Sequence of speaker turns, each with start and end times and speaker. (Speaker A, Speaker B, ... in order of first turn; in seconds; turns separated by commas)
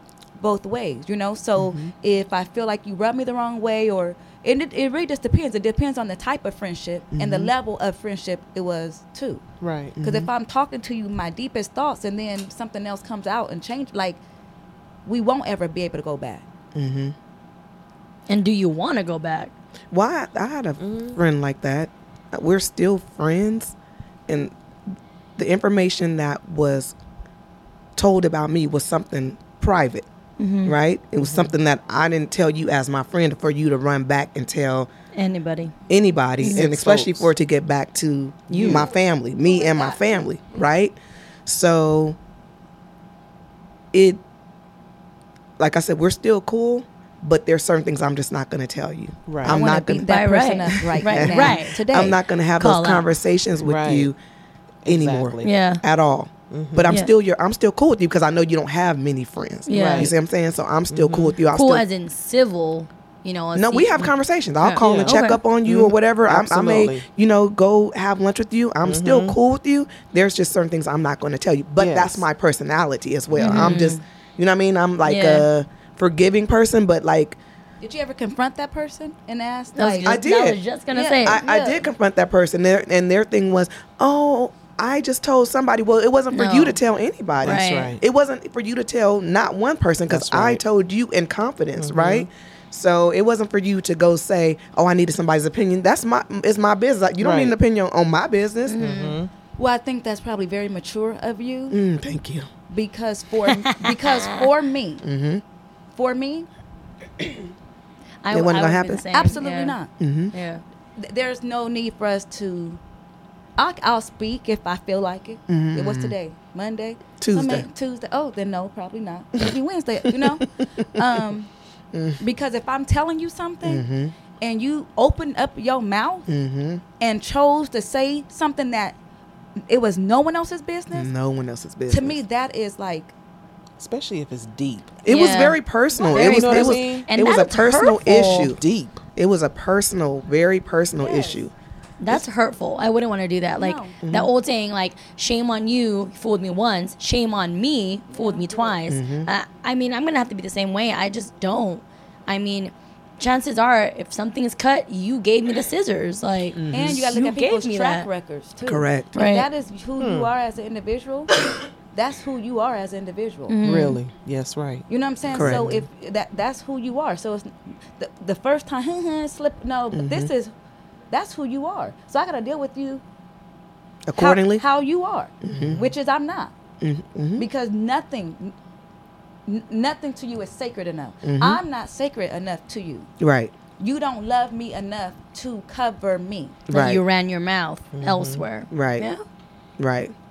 Speaker A: 0.4-9.4, Speaker B: 1.6-1.9, Speaker B: 7.1-7.5, Speaker C: 9.6-10.0, Speaker B: 10.0-10.3, Speaker A: 10.0-14.2, Speaker A: 15.0-16.4, Speaker B: 16.7-17.1, Speaker D: 18.3-19.5, Speaker B: 19.9-23.7, Speaker C: 20.8-21.2, Speaker B: 24.3-24.5, Speaker B: 25.4-26.9, Speaker B: 27.9-30.1, Speaker D: 30.4-30.8, Speaker B: 30.6-34.9, Speaker C: 31.2-31.5, Speaker D: 35.1-35.7, Speaker B: 35.9-42.2, Speaker D: 36.4-36.7, Speaker C: 36.4-37.3, Speaker D: 38.5-38.8, Speaker C: 38.5-38.8, Speaker A: 39.5-40.2, Speaker B: 43.9-44.2, Speaker B: 45.6-50.1, Speaker C: 49.3-49.6, Speaker A: 49.4-52.2, Speaker D: 50.0-51.8, Speaker B: 51.0-54.1, Speaker D: 52.6-53.0, Speaker C: 53.6-54.1, Speaker C: 54.8-55.5, Speaker B: 54.9-61.8, Speaker D: 55.4-55.8, Speaker C: 56.5-57.0, Speaker D: 59.7-60.1, Speaker C: 59.7-60.1, Speaker C: 60.9-61.4, Speaker D: 61.5-65.4, Speaker B: 63.5-77.4, Speaker C: 64.8-67.0, Speaker C: 68.8-69.3, Speaker C: 71.8-72.2, Speaker C: 73.3-73.8, Speaker D: 73.4-74.0, Speaker D: 75.0-75.5, Speaker A: 77.8-80.2, Speaker D: 79.8-81.4, Speaker B: 80.0-80.6, Speaker A: 80.9-81.8, Speaker B: 81.2-98.8, Speaker D: 86.3-86.8, Speaker C: 87.4-88.0, Speaker D: 87.4-87.9, Speaker C: 90.1-90.6, Speaker C: 91.8-92.3, Speaker C: 97.2-97.5, Speaker D: 98.7-99.2, Speaker C: 98.8-99.3, Speaker A: 99.5-101.8, Speaker B: 101.7-102.5, Speaker A: 102.7-105.0, Speaker D: 103.5-104.2, Speaker B: 105.0-105.4, Speaker A: 105.9-106.5, Speaker D: 108.2-109.8, Speaker B: 108.3-109.1, Speaker A: 109.1-109.9, Speaker B: 110.0-110.3, Speaker D: 110.3-110.6, Speaker A: 111.0-112.8, Speaker A: 113.6-121.5, Speaker B: 115.5-116.1, Speaker B: 117.2-117.7, Speaker B: 121.9-122.2, Speaker A: 122.2-123.8, Speaker B: 123.6-124.1, Speaker A: 124.4-126.3, Speaker B: 126.3-126.8, Speaker A: 127.0-128.9, Speaker A: 129.7-131.1, Speaker B: 130.9-132.2, Speaker A: 131.9-133.1, Speaker C: 133.8-135.0, Speaker B: 135.0-138.6, Speaker D: 135.1-135.6, Speaker A: 135.9-136.3, Speaker C: 136.1-137.1, Speaker D: 136.1-138.4, Speaker C: 138.0-139.0, Speaker B: 139.1-141.5, Speaker A: 141.0-141.4, Speaker D: 142.0-158.1, Speaker A: 143.5-144.0, Speaker B: 144.0-144.3, Speaker A: 148.1-148.8, Speaker B: 148.9-149.3, Speaker B: 156.6-157.1, Speaker A: 156.7-161.3, Speaker B: 158.7-159.1, Speaker D: 159.1-159.5, Speaker C: 160.0-160.3, Speaker A: 161.9-163.6, Speaker D: 163.5-164.0, Speaker C: 163.6-165.7, Speaker A: 164.9-170.5, Speaker B: 165.3-165.8, Speaker B: 169.9-170.3, Speaker A: 171.1-173.0, Speaker B: 174.1-174.6, Speaker A: 174.2-176.5, Speaker B: 175.4-175.8, Speaker C: 175.6-175.8, Speaker B: 176.8-177.4, Speaker A: 177.4-178.5, Speaker A: 179.4-183.1, Speaker B: 181.2-181.6, Speaker B: 183.2-183.5, Speaker A: 183.8-186.7, Speaker B: 186.7-187.0, Speaker D: 186.7-189.2, Speaker C: 187.9-188.4, Speaker B: 188.7-189.1, Speaker B: 189.8-190.1